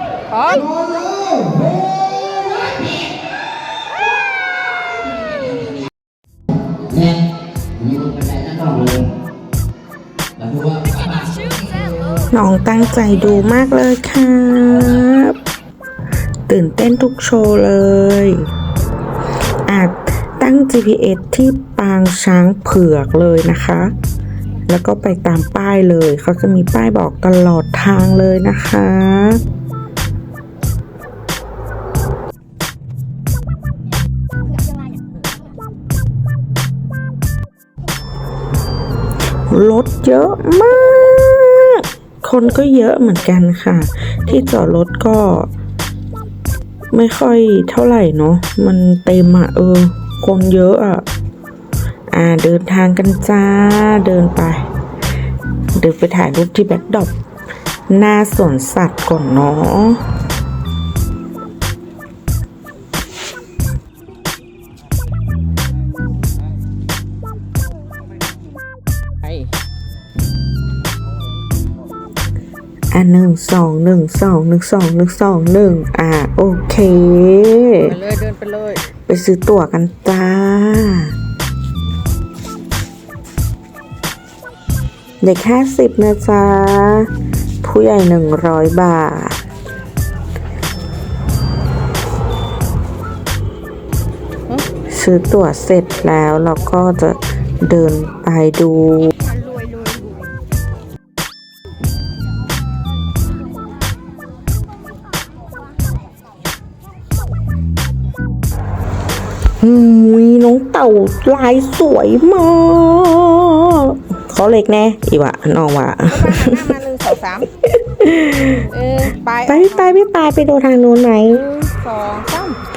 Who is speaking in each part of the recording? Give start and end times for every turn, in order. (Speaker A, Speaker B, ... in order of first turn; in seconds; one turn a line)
Speaker A: 0.3-0.9
Speaker B: 7.8-9.1
Speaker B: 10.4-12.0
Speaker C: 12.3-15.4
Speaker C: 16.5-18.4
Speaker C: 19.6-23.9
Speaker C: 24.7-29.4
Speaker C: 39.5-45.5
Speaker C: 46.9-51.0
Speaker C: 52.1-54.6
Speaker C: 55.8-57.1
Speaker C: 57.9-60.0
Speaker C: 72.9-77.9
Speaker A: 77.8-78.8
Speaker C: 79.0-81.1
Speaker C: 85.2-87.1
Speaker C: 87.6-89.4
Speaker C: 94.9-99.1
Speaker C: 109.6-116.7
Speaker A: 116.0-117.5
Speaker C: 117.6-118.6
Speaker A: 118.3-120.0
Speaker C: 119.5-121.4
Speaker A: 121.3-122.6